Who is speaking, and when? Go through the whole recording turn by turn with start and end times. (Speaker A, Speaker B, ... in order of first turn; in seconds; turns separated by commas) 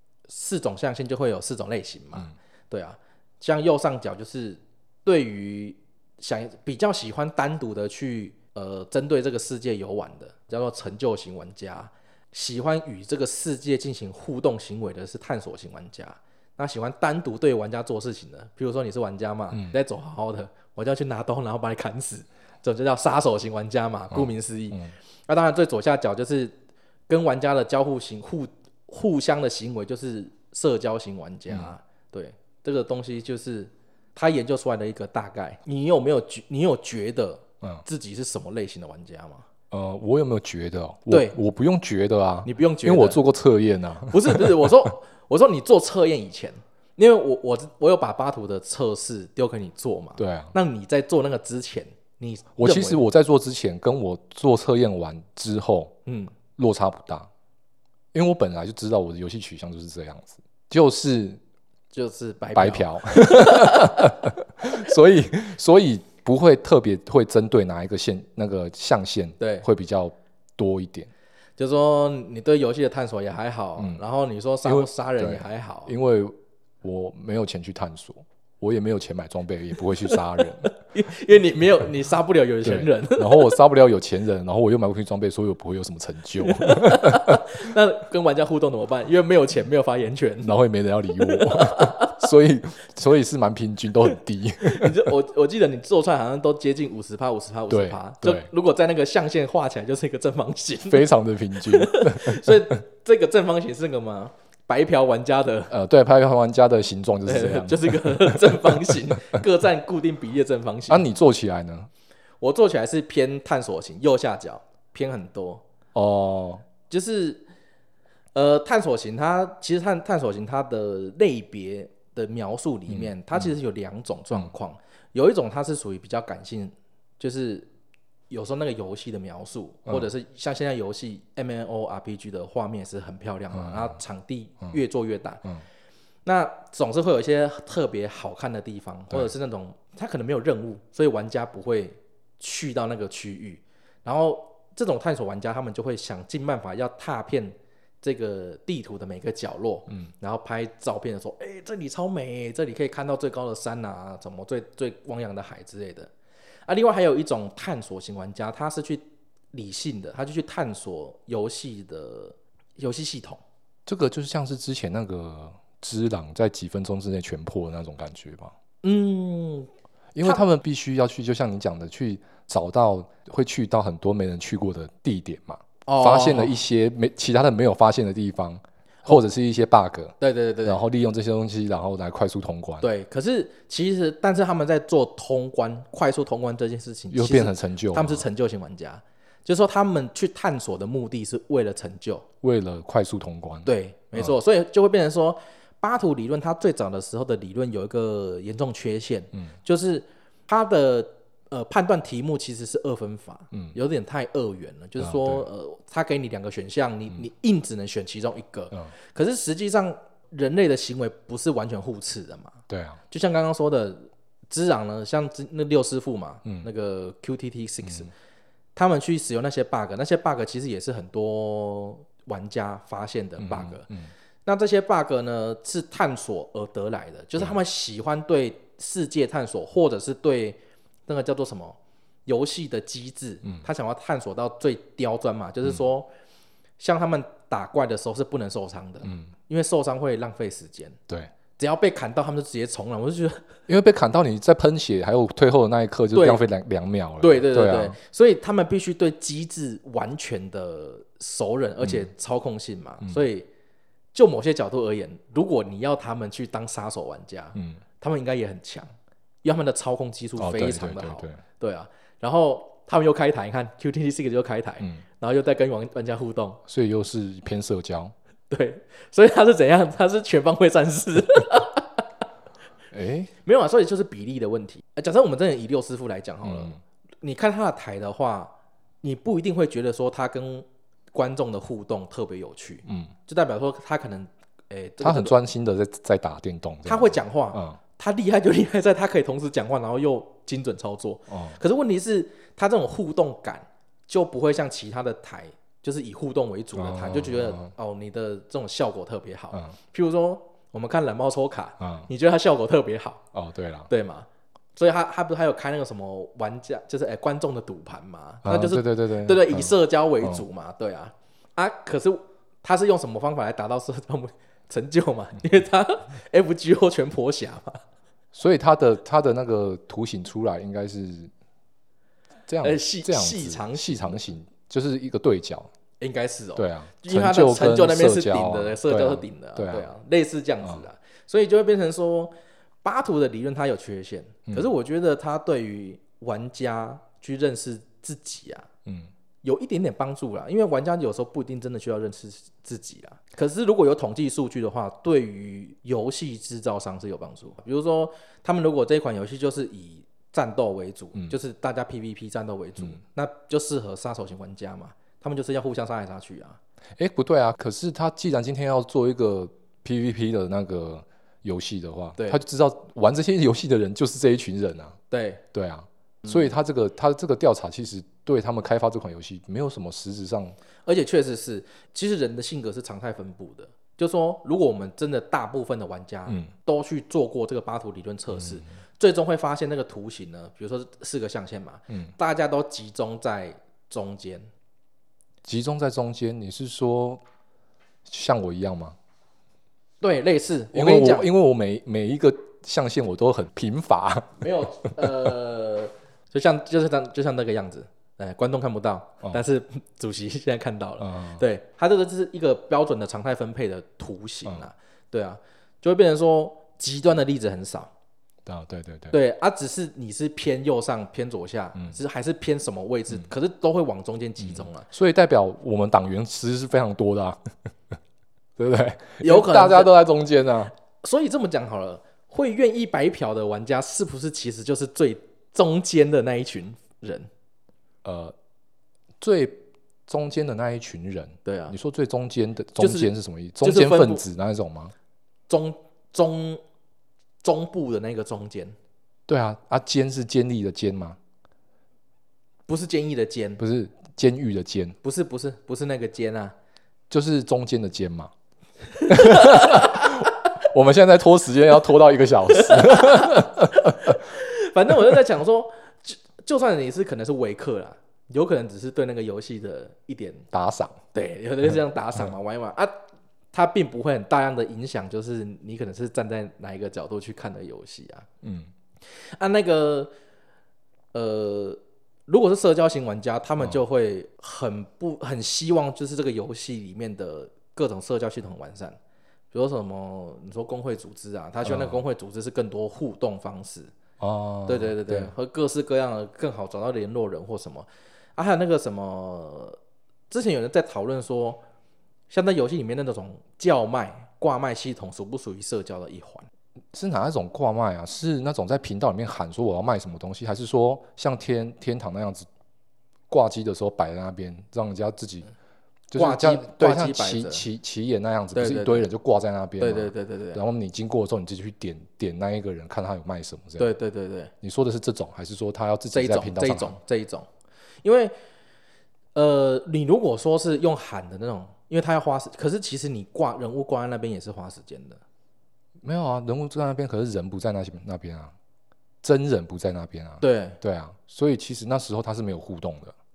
Speaker A: 0.3-26.6, Speaker B: 24.1-24.9, Speaker A: 27.1-39.5, Speaker B: 31.5-31.7, Speaker B: 39.7-44.7, Speaker A: 41.1-41.4, Speaker A: 42.4-43.2, Speaker A: 44.1-53.0, Speaker B: 50.2-50.5, Speaker B: 52.6-56.0, Speaker A: 56.0-56.3, Speaker B: 56.6-57.3, Speaker B: 58.1-61.4, Speaker A: 61.9-64.2, Speaker B: 62.5-71.1, Speaker A: 69.4-69.6, Speaker A: 71.6-75.9, Speaker B: 74.6-80.7, Speaker A: 80.1-83.6, Speaker B: 82.6-87.6, Speaker A: 86.4-90.5, Speaker B: 90.4-95.1, Speaker A: 91.3-92.2, Speaker A: 94.6-105.7, Speaker B: 97.7-98.5, Speaker B: 100.9-102.7, Speaker B: 105.7-109.0, Speaker A: 107.2-111.0, Speaker B: 110.9-111.9, Speaker A: 112.4-115.6, Speaker B: 115.9-116.6, Speaker A: 116.9-117.4, Speaker A: 118.3-127.7, Speaker B: 122.9-123.5, Speaker A: 128.3-135.5, Speaker B: 133.5-133.9, Speaker A: 136.2-156.1, Speaker A: 156.7-163.4, Speaker B: 163.8-168.5, Speaker A: 168.8-169.7, Speaker B: 170.1-182.8, Speaker A: 175.8-176.6, Speaker A: 180.2-180.8, Speaker A: 182.8-192.2, Speaker B: 187.1-188.2, Speaker B: 192.4-194.3, Speaker A: 193.7-212.6, Speaker B: 205.0-205.4, Speaker B: 212.7-213.0, Speaker A: 213.1-218.1, Speaker A: 218.7-223.9, Speaker B: 223.4-224.1, Speaker A: 224.4-236.1, Speaker A: 236.8-241.0, Speaker B: 239.0-239.3, Speaker A: 241.6-243.4, Speaker B: 243.7-248.0, Speaker A: 246.1-246.4, Speaker A: 247.2-253.5, Speaker B: 251.8-252.1, Speaker A: 254.1-258.9, Speaker B: 257.5-257.8, Speaker A: 259.4-266.6, Speaker B: 260.4-261.4, Speaker B: 266.6-268.1, Speaker A: 268.5-272.0, Speaker B: 272.9-273.3, Speaker A: 273.4-285.3, Speaker B: 276.4-276.8, Speaker B: 282.9-283.1, Speaker B: 285.0-287.8, Speaker A: 286.9-303.2, Speaker B: 291.3-291.6, Speaker B: 296.7-297.7, Speaker B: 301.8-302.1, Speaker B: 303.3-303.9, Speaker A: 303.9-317.8, Speaker B: 308.4-310.4, Speaker B: 318.3-321.3, Speaker B: 322.5-325.7, Speaker A: 322.6-324.2, Speaker A: 326.0-332.3, Speaker B: 326.6-329.9, Speaker A: 332.8-338.7, Speaker A: 339.4-356.6, Speaker B: 357.0-365.0, Speaker A: 365.1-365.4, Speaker B: 365.5-370.6, Speaker A: 370.9-384.5, Speaker B: 378.4-378.6, Speaker B: 385.4-387.2, Speaker B: 388.1-388.9, Speaker A: 390.0-391.3, Speaker B: 390.7-395.1, Speaker A: 394.4-407.9, Speaker B: 401.0-401.4, Speaker B: 408.4-409.2, Speaker A: 409.1-414.9, Speaker B: 414.4-417.9, Speaker B: 418.6-420.7, Speaker A: 419.2-419.9, Speaker A: 421.0-427.3, Speaker B: 428.0-428.3, Speaker B: 429.2-434.9, Speaker A: 431.4-431.8, Speaker A: 432.8-434.2, Speaker A: 435.5-436.6, Speaker A: 437.4-438.8, Speaker B: 439.3-441.2, Speaker A: 442.7-443.6, Speaker B: 443.6-445.0, Speaker A: 445.0-446.5, Speaker B: 447.1-448.3, Speaker A: 449.0-450.2, Speaker B: 449.1-454.2, Speaker A: 452.5-460.4, Speaker B: 460.5-461.0, Speaker A: 461.1-462.9, Speaker A: 463.5-468.3, Speaker B: 468.4-468.7, Speaker A: 469.1-470.1, Speaker A: 471.1-479.0, Speaker A: 479.5-483.9, Speaker B: 481.6-482.0, Speaker B: 484.2-485.3, Speaker A: 484.7-489.8, Speaker A: 490.3-491.6, Speaker A: 492.3-496.5, Speaker B: 496.9-502.5, Speaker B: 503.3-505.5, Speaker B: 506.1-513.9, Speaker A: 506.1-507.6, Speaker A: 508.5-509.1, Speaker A: 509.8-510.6, Speaker A: 513.8-514.5, Speaker B: 514.6-517.0, Speaker A: 516.1-517.5, Speaker A: 518.0-518.3, Speaker A: 519.3-525.2, Speaker B: 526.0-528.5, Speaker B: 529.2-533.1, Speaker A: 530.4-530.8